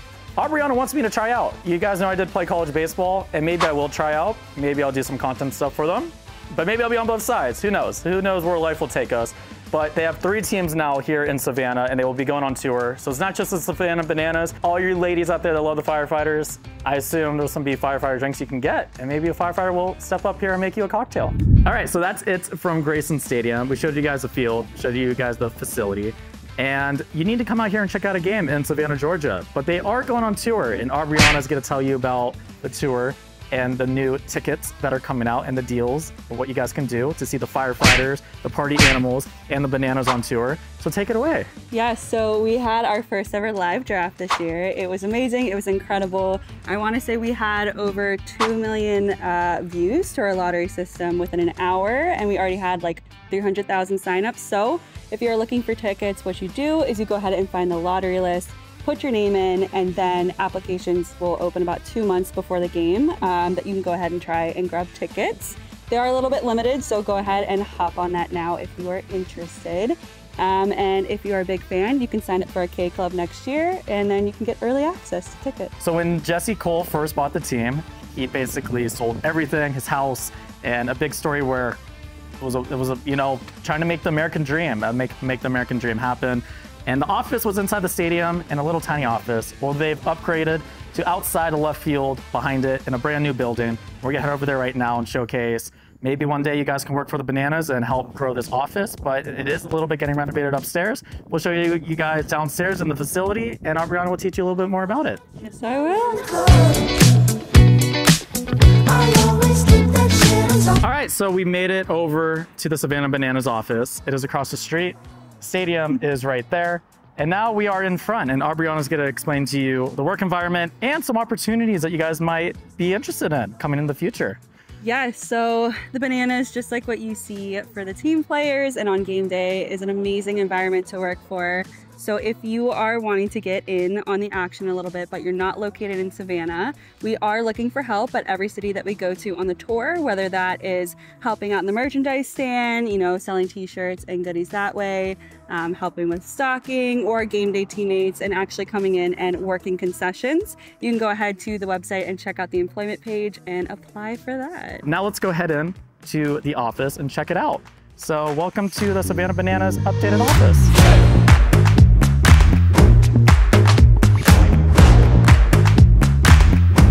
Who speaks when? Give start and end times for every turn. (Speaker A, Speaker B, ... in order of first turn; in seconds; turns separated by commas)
Speaker A: 0.4-41.5, Speaker B: 41.7-75.7, Speaker A: 75.8-81.8, Speaker A: 82.4-105.2, Speaker B: 105.4-106.8, Speaker B: 108.9-110.8, Speaker A: 110.8-124.4, Speaker B: 124.8-154.8, Speaker A: 154.8-160.7